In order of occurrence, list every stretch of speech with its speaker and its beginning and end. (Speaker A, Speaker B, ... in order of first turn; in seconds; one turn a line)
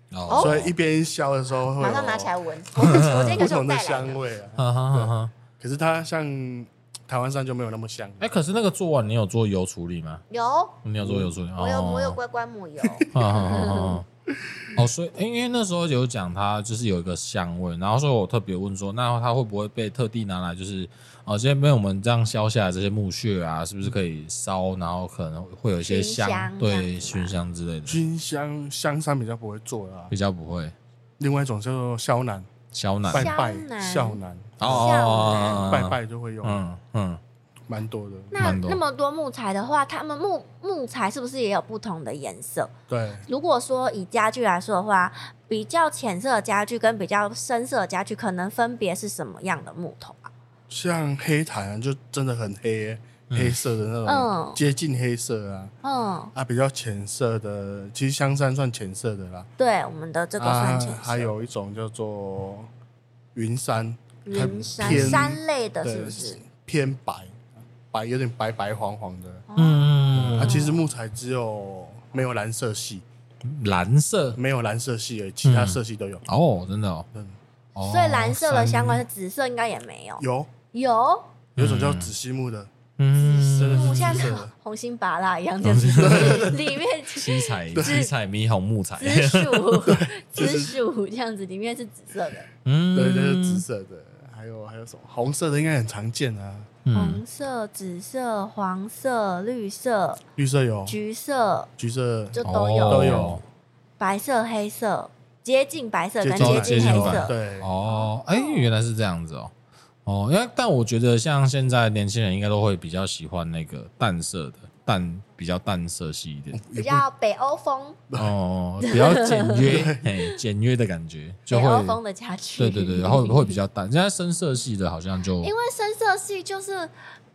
Speaker A: 0.1-0.7
Speaker B: 0.3-0.6
Speaker C: 0.3-8.3
Speaker B: 1.8-4.2
Speaker A: 2.8-3.4
Speaker A: 4.6-5.3
Speaker A: 8.2-10.2
Speaker B: 10.3-10.8
Speaker A: 10.8-12.2
Speaker C: 11.0-11.3
Speaker B: 11.6-14.0
Speaker C: 12.8-13.7
Speaker A: 13.1-14.1
Speaker C: 14.5-14.8
Speaker A: 14.7-28.0
Speaker B: 25.8-27.4
Speaker C: 27.9-30.1
Speaker A: 30.1-30.7
Speaker C: 31.2-32.5
Speaker A: 32.7-33.3
Speaker C: 33.1-36.6
Speaker B: 33.1-35.8
Speaker A: 34.6-37.2
Speaker C: 37.7-38.5
Speaker B: 38.3-42.7
Speaker A: 38.4-38.8
Speaker C: 42.9-43.3
Speaker B: 43.3-50.3
Speaker C: 50.7-55.7
Speaker A: 53.3-53.6
Speaker B: 54.0-54.6
Speaker B: 55.8-56.3
Speaker C: 56.3-59.5
Speaker B: 59.6-61.3
Speaker C: 60.4-62.7
Speaker C: 63.3-69.4
Speaker B: 64.2-66.4
Speaker A: 64.8-65.3
Speaker B: 69.5-70.8
Speaker A: 69.5-70.7
Speaker C: 70.1-73.0
Speaker A: 73.4-74.4
Speaker C: 74.4-76.2
Speaker A: 75.4-77.1
Speaker A: 77.8-79.0
Speaker B: 77.8-81.3
Speaker C: 80.2-80.5
Speaker A: 81.5-82.1
Speaker C: 81.6-82.7
Speaker A: 83.0-84.4
Speaker B: 83.2-88.1
Speaker C: 83.5-84.5
Speaker A: 85.6-89.8
Speaker C: 86.0-86.6
Speaker C: 87.7-88.0
Speaker B: 89.0-92.5
Speaker C: 89.9-90.8
Speaker A: 92.6-93.6
Speaker C: 92.9-96.7
Speaker A: 96.9-97.2
Speaker B: 96.9-100.2
Speaker C: 100.4-101.0
Speaker B: 100.9-101.7
Speaker C: 101.8-103.4
Speaker B: 102.3-103.4
Speaker A: 102.4-103.4
Speaker B: 104.0-108.7
Speaker C: 106.2-107.7
Speaker A: 106.4-109.5
Speaker A: 110.0-116.6
Speaker C: 116.5-117.0
Speaker B: 116.7-118.0
Speaker A: 118.2-122.0
Speaker B: 118.8-119.6
Speaker C: 119.5-120.1
Speaker B: 121.5-123.6
Speaker A: 122.6-125.5
Speaker B: 125.4-126.9